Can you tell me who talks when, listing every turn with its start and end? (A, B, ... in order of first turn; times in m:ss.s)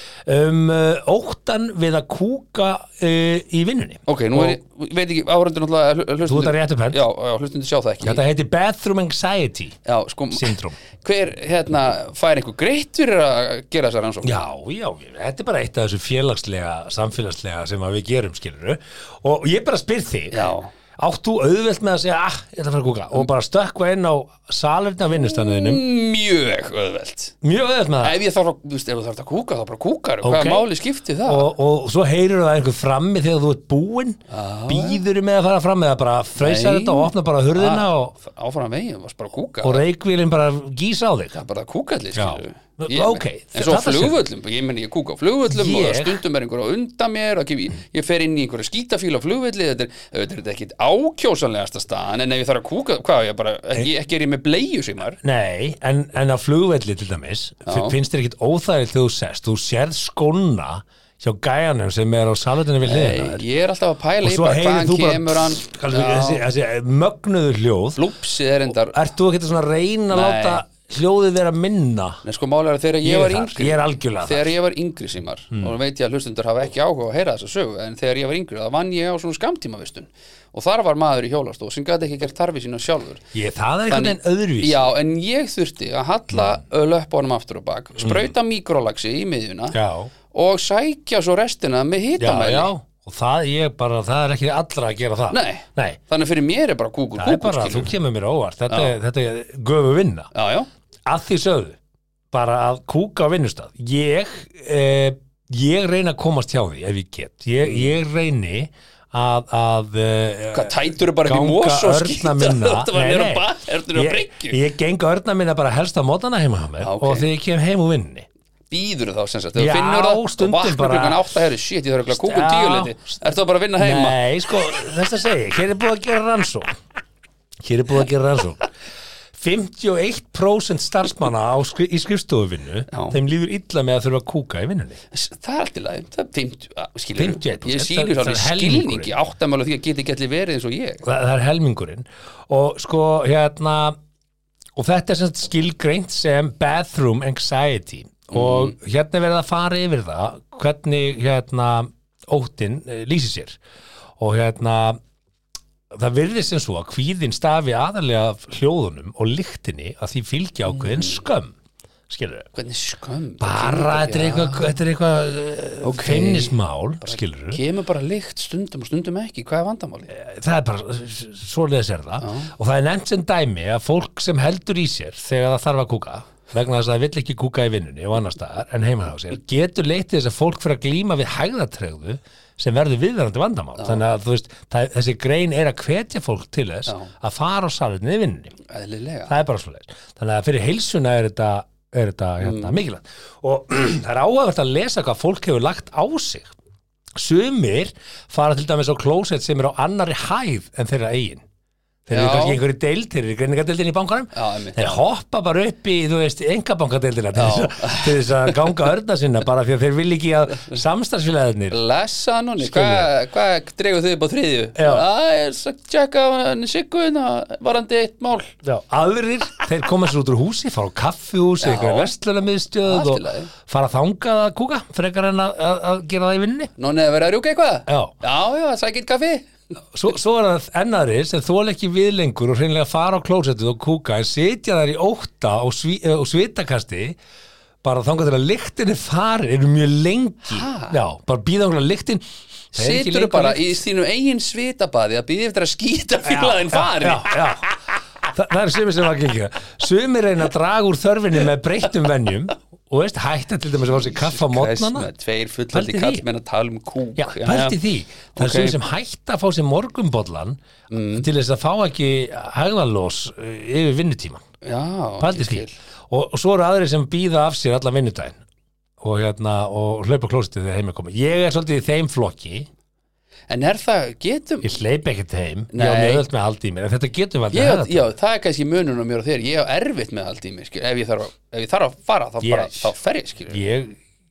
0:00.2-0:04.6 A
0:04.1-0:08.2 B
0:06.2-0:07.0 A
0:08.0-0:09.8 A
0:09.8-0:14.4 B
0:10.3-0:10.8 A
0:14.2-0:25.8 A
0:20.3-0:20.7 B
0:25.2-0:27.4 B
0:27.4-0:28.2 A
0:28.0-0:31.5 B
0:30.2-0:30.7 A
0:31.2-0:38.1 A
0:34.3-0:35.0 B
0:36.4-0:39.8 B
0:39.6-0:41.3 A
0:41.3-0:55.2 B
0:42.1-0:44.2 A
0:45.4-0:46.2 A
0:55.2-1:03.4 A
0:57.6-0:58.0 B
1:02.8-1:06.4 B
1:04.2-1:08.0 A
1:08.0-1:09.0 B
1:08.7-1:12.2 A
1:10.1-1:10.6 B
1:12.2-1:23.2 B
1:13.0-1:14.5 A
1:23.3-1:24.8 A
1:23.9-1:29.8 B
1:26.3-1:26.6 A
1:28.0-1:28.3 A
1:29.7-1:30.1 A
1:30.3-1:32.7 B
1:32.2-1:36.0 A
1:35.3-1:37.9 B
1:37.2-1:40.3 A
1:40.3-1:40.7 B
1:41.0-1:41.8 A
1:42.3-1:58.3 A
1:47.6-1:47.9 B
1:50.5-1:54.6 B
1:56.8-1:57.3 B
1:58.7-2:04.2 B
1:59.6-2:01.3 A
2:02.1-2:03.1 A
2:03.8-2:06.7 A
2:07.6-2:08.7 A
2:09.3-2:15.0 A
2:12.9-2:13.2 B
2:15.1-2:21.0 B
2:17.2-2:19.2 A
2:21.0-2:24.0 A
2:24.7-2:33.6 A
2:28.3-2:28.7 B
2:34.2-2:35.0 A
2:35.9-2:41.5 A
2:40.7-2:41.2 B
2:42.1-2:42.5 A
2:42.5-2:44.8 B
2:43.4-2:47.6 A
2:45.8-2:50.1 B
2:50.1-3:08.5 A
2:52.2-2:52.5 B
3:08.7-3:09.3 B
3:09.3-3:16.5 A
3:12.4-3:12.8 B
3:17.1-3:21.4 A
3:22.0-3:31.8 A
3:22.1-3:22.6 B
3:24.3-3:25.0 B
3:27.3-3:28.7 B
3:31.7-3:38.5 B
3:32.6-3:33.1 A
3:34.8-3:35.0 A
3:38.6-3:46.7 A
3:41.6-3:42.1 B
3:42.8-3:43.5 B
3:46.8-3:49.5 B
3:47.9-3:48.1 A
3:49.9-3:57.2 A
3:57.8-4:03.8 A
4:00.5-4:01.0 B
4:02.7-4:07.5 B
4:06.2-4:07.7 A
4:08.2-4:15.1 A
4:14.0-4:17.8 B
4:15.7-4:16.2 A
4:17.2-4:20.6 A
4:18.3-4:18.8 B
4:20.9-4:21.3 B
4:21.1-4:24.4 A
4:24.6-4:25.8 B
4:25.2-4:28.4 A
4:29.0-4:32.7 A
4:33.5-4:34.8 B
4:34.6-4:38.0 A
4:35.7-4:36.2 B
4:37.5-4:43.6 B
4:42.4-4:42.9 A
4:43.5-4:44.0 A